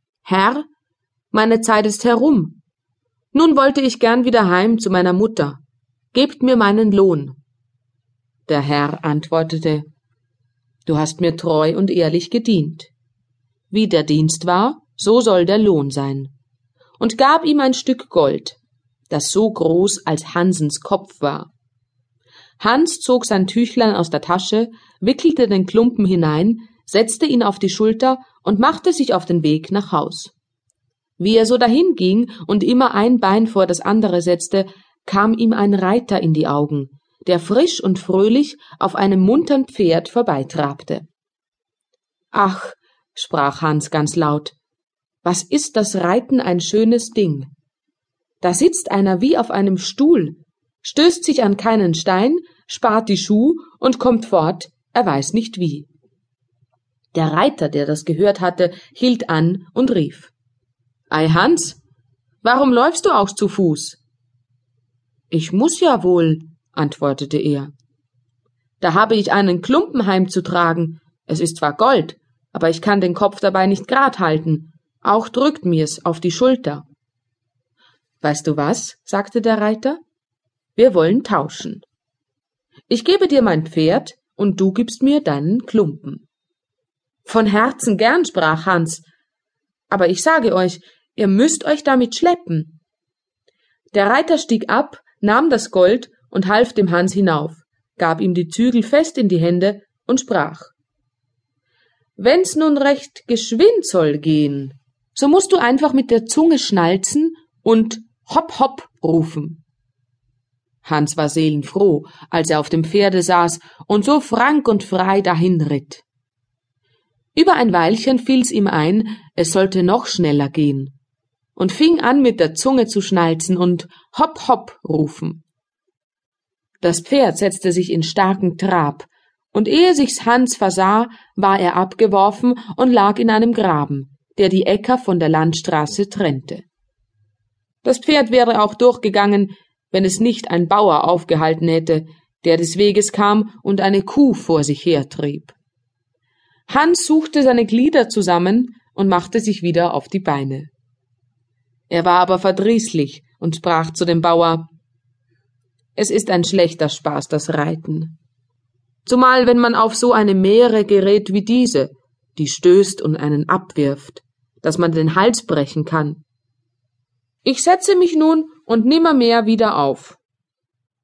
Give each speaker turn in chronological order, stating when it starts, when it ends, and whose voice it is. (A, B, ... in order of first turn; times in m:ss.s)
0:00.2-0:00.7 A
0:01.3-0:02.6 A
0:03.3-0:05.6 A
0:06.1-0:07.4 A
0:08.5-0:09.8 A
0:10.8-0:12.9 A
0:13.7-0:16.3 A
0:17.0-0:18.6 A
0:19.1-0:21.5 A
0:22.6-0:30.3 A
0:31.2-0:41.1 A
0:42.3-0:44.6 A
0:45.2-0:47.5 A
0:48.4-0:55.9 A
0:57.1-1:00.3 A
1:01.1-1:01.8 A
1:02.4-1:04.0 A
1:05.3-1:07.7 A
1:08.8-1:16.8 A
1:18.2-1:20.0 A
1:20.8-1:21.8 A
1:22.9-1:26.2 A
1:27.2-1:29.0 A
1:29.9-1:32.8 A
1:33.9-1:40.7 A
1:42.2-1:49.6 A
1:50.8-1:56.0 A
1:57.4-2:01.0 A
2:01.6-2:05.4 A
2:06.8-2:16.6 A
2:17.8-2:25.6 A
2:26.7-2:30.7 A
2:31.9-2:34.7 A
2:36.0-2:38.2 A
2:39.1-2:46.2 A
2:47.4-2:50.2 A